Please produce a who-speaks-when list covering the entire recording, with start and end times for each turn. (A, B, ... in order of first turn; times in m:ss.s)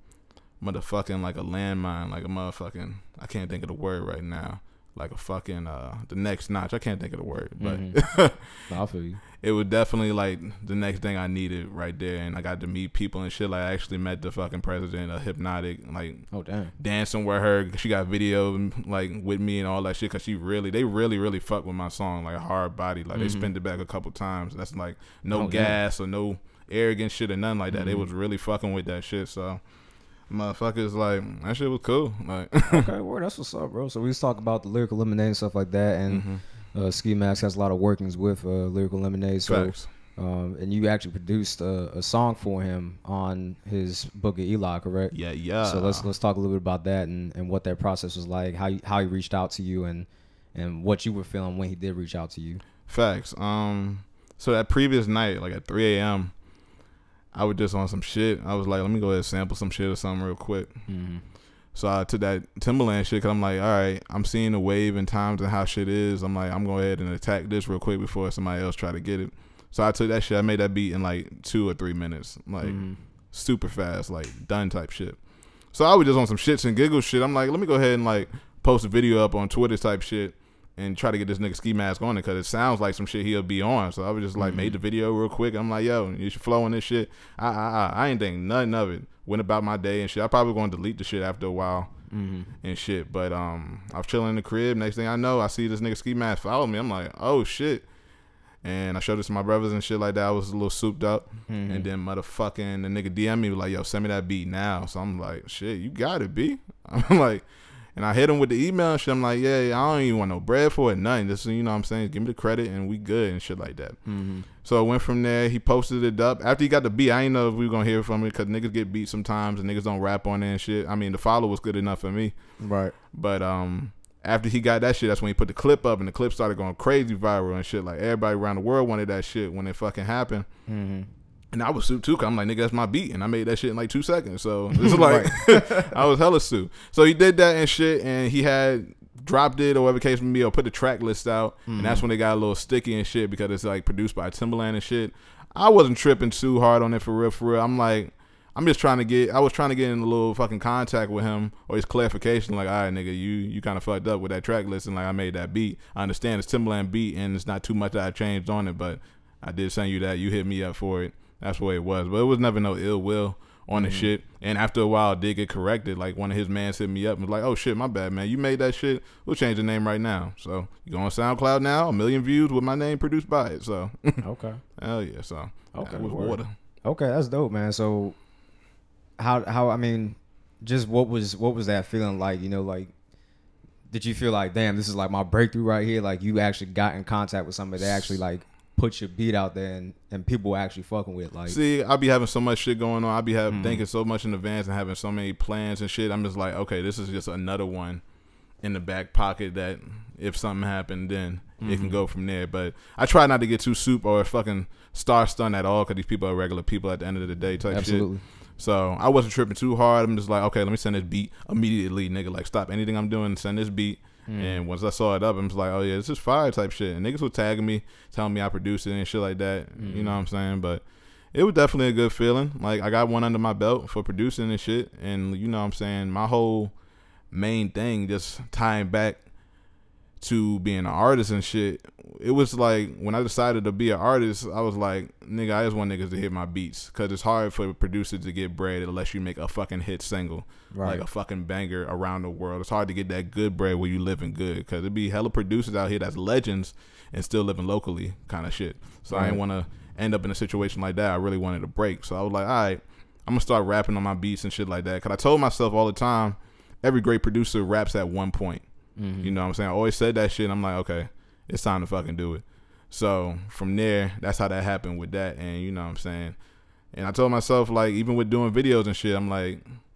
0:00.6-0:08.7 A
0:07.6-0:08.0 B
0:08.7-0:09.2 B
0:09.4-0:16.3 A
0:16.3-0:16.7 B
0:16.8-0:29.6 A
0:23.1-0:23.5 B
0:25.3-0:25.8 B
0:27.7-0:28.1 B
0:30.3-0:32.9 A
0:32.6-0:52.6 B
0:36.1-0:36.4 A
0:39.4-0:39.8 A
0:45.1-0:46.1 A
0:52.9-0:56.3 A
0:57.3-1:00.7 A
1:00.9-1:01.2 B
1:01.7-1:15.2 A
1:12.6-1:13.0 B
1:15.7-1:31.9 A
1:24.4-1:24.8 B
1:32.1-1:32.5 B
1:32.6-1:37.9 A
1:38.6-1:54.0 A
1:41.5-1:41.9 B
1:54.0-1:54.5 B
1:54.6-2:02.3 A
2:02.6-2:02.9 B
2:03.1-2:10.4 A
2:10.7-2:11.1 B
2:11.5-2:54.2 A
2:14.7-2:16.0 B
2:21.7-2:22.0 B
2:43.8-2:44.1 B
2:54.2-2:54.6 B
2:54.8-2:56.5 A
2:55.7-2:58.2 B
2:59.2-3:02.9 B
3:03.9-3:11.6 B
3:07.8-3:08.1 A
3:11.5-3:18.0 A
3:13.5-3:13.8 B
3:18.6-3:46.7 A
3:21.6-3:22.0 B
3:27.7-3:28.2 B
3:34.3-3:34.6 B
3:39.8-3:40.2 B
3:47.3-3:49.2 A
3:50.2-4:18.6 A
4:00.7-4:01.0 B
4:09.1-4:09.4 B
4:19.0-4:19.3 B
4:19.2-4:26.4 A
4:26.9-4:29.6 A